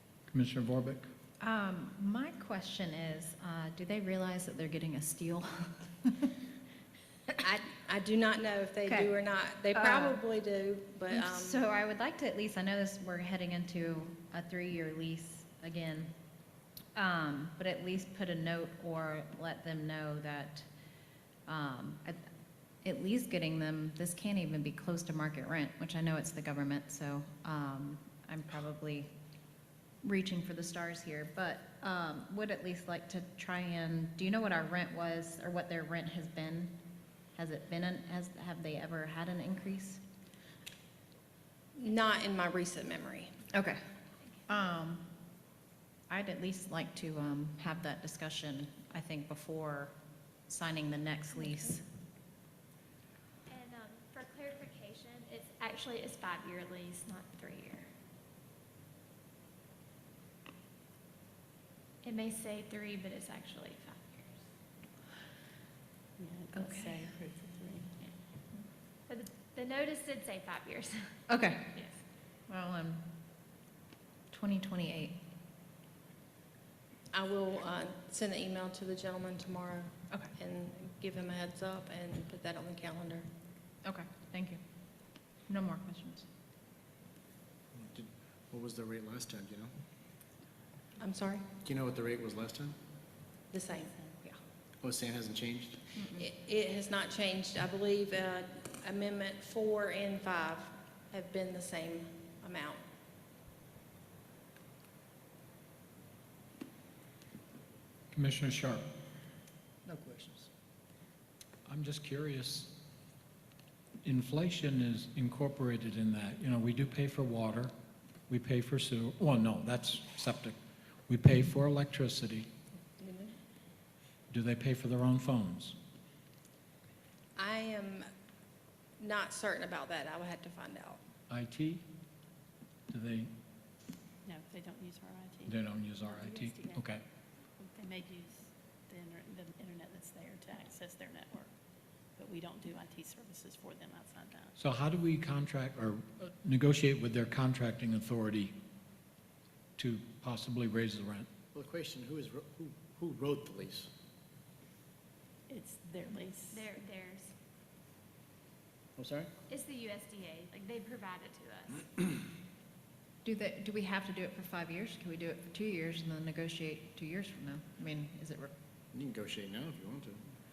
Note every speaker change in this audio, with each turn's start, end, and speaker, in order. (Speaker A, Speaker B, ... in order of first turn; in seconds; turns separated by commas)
Speaker A: 0.3-1.1, Speaker B: 1.4-6.3, Speaker C: 7.4-11.6, Speaker B: 8.9-9.1, Speaker B: 9.7-10.2, Speaker B: 11.1-16.1, Speaker B: 16.9-20.7, Speaker B: 21.5-22.2, Speaker B: 22.8-29.1, Speaker B: 30.0-36.7, Speaker B: 37.4-40.0, Speaker C: 41.8-43.3, Speaker B: 43.5-43.8, Speaker B: 44.5-45.1, Speaker B: 46.1-49.9, Speaker B: 50.5-51.8, Speaker C: 51.4-51.7, Speaker D: 53.5-57.9, Speaker D: 62.0-64.4, Speaker E: 66.2-67.9, Speaker D: 69.1-71.1, Speaker B: 71.3-71.8, Speaker B: 72.5-73.0, Speaker B: 74.3-75.2, Speaker C: 77.1-83.3, Speaker B: 83.8-84.6, Speaker B: 85.5-86.3, Speaker F: 87.7-89.7, Speaker C: 91.0-91.5, Speaker F: 91.6-92.8, Speaker C: 93.5-94.0, Speaker F: 94.8-95.9, Speaker B: 96.0-96.3, Speaker C: 96.0-102.8, Speaker A: 108.1-108.8, Speaker F: 109.9-110.5, Speaker A: 111.7-112.7, Speaker A: 114.0-117.7, Speaker A: 118.3-120.6, Speaker A: 121.1-122.5, Speaker C: 123.0-123.3, Speaker A: 124.3-125.8, Speaker C: 127.4-128.1, Speaker C: 129.0-131.0, Speaker A: 131.3-131.8, Speaker A: 132.9-133.3, Speaker E: 134.2-136.8, Speaker A: 135.5-137.0, Speaker E: 137.6-141.5, Speaker E: 142.2-144.5, Speaker A: 144.6-148.6, Speaker A: 149.8-151.3, Speaker F: 151.5-153.9, Speaker E: 155.5-156.7, Speaker D: 156.5-157.3, Speaker F: 159.0-159.3, Speaker D: 159.5-161.9, Speaker B: 163.2-168.5, Speaker F: 168.9-170.2